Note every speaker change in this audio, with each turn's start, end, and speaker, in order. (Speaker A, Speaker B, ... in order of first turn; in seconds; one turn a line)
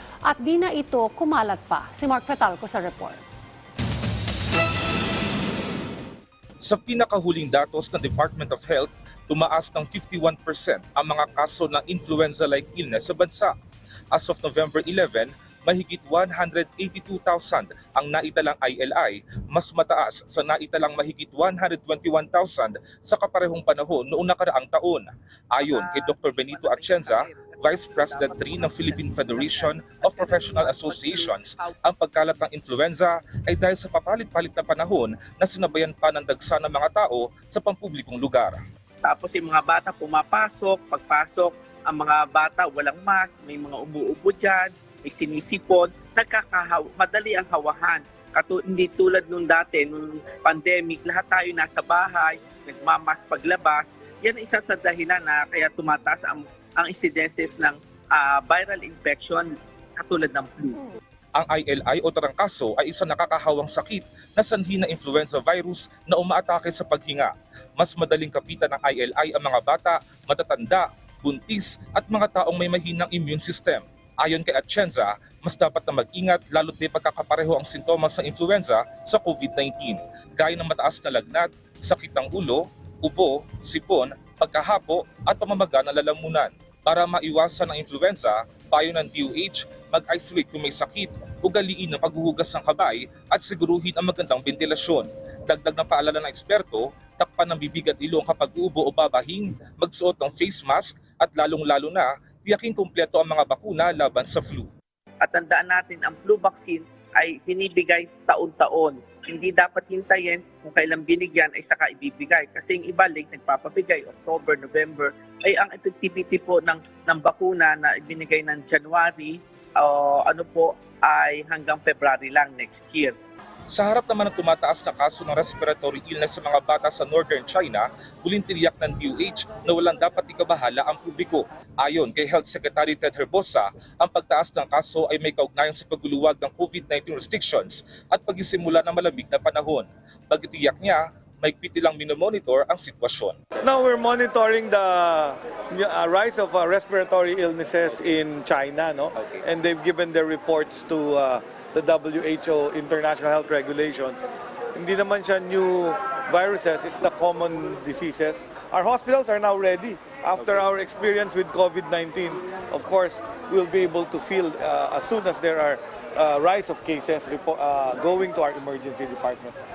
Speaker A: 0.2-3.2
Speaker B: 6.6-13.5
Speaker B: 14.1-38.6
Speaker C: 25.6-31.8
Speaker C: 39.0-60.9
Speaker B: 61.4-104.7
Speaker C: 105.2-123.2
Speaker B: 123.7-143.3
Speaker D: 143.6-154.2
Speaker D: 154.7-169.6